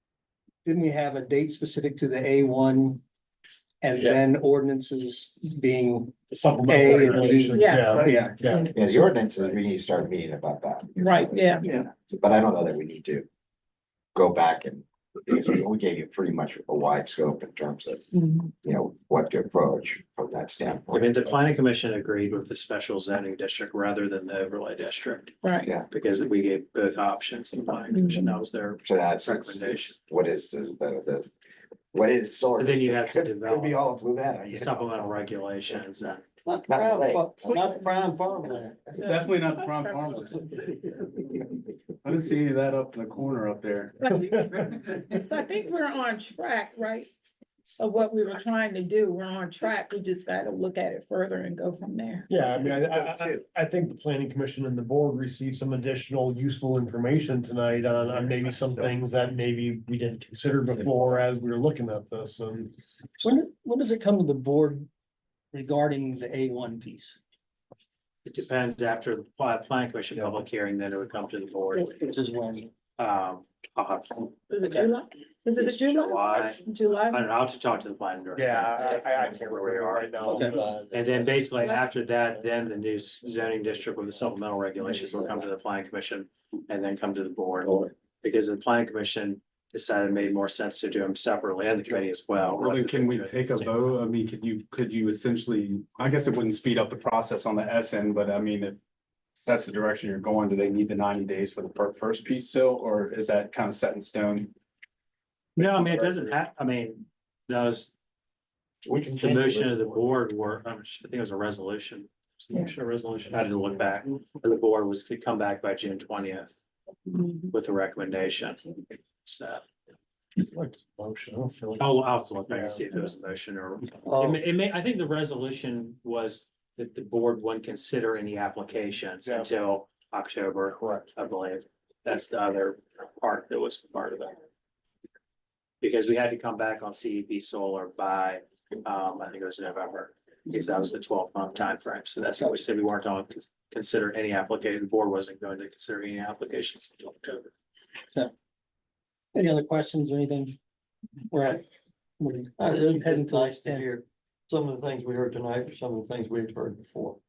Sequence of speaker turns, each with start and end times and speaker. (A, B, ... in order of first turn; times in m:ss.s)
0:00.6-0:03.0 A
0:03.8-0:08.8 A
0:06.3-0:08.7 B
0:07.5-0:08.7 C
0:08.6-0:13.3 D
0:11.0-0:11.7 C
0:14.1-0:18.1 D
0:18.1-0:18.5 C
0:18.6-0:21.2 D
0:20.9-0:25.4 E
0:25.4-0:25.7 C
0:25.9-0:30.0 E
0:27.9-0:28.3 C
0:28.8-0:31.3 D
0:31.9-0:34.9 D
0:32.6-0:33.8 E
0:34.5-0:36.2 E
0:36.4-0:38.8 F
0:36.7-0:37.9 D
0:38.9-0:40.4 G
0:39.0-0:40.2 C
0:42.0-0:44.2 G
0:44.2-0:47.1 C
0:47.8-0:52.3 C
0:52.3-1:02.7 B
1:03.2-1:04.9 A
1:05.5-1:07.2 A
1:08.2-1:12.1 E
1:12.0-1:12.7 A
1:13.0-1:14.4 E
1:14.5-1:17.3 C
1:14.6-1:14.9 A
1:15.6-1:34.0 E
1:18.4-1:19.0 B
1:19.8-1:20.2 B
1:20.2-1:20.7 A
1:21.6-1:21.9 C
1:32.5-1:38.8 G
1:39.4-1:44.5 G
1:45.6-1:46.3 G
1:45.6-1:47.9 E
1:48.8-1:56.6 E
1:49.0-1:49.9 D
1:57.1-1:57.5 C
1:57.5-1:59.6 E
2:01.8-2:14.4 E
2:04.0-2:04.4 F
2:15.8-2:27.5 E
2:29.3-2:30.6 A
2:31.3-2:31.7 A
2:32.2-2:33.9 A
2:32.6-2:37.2 F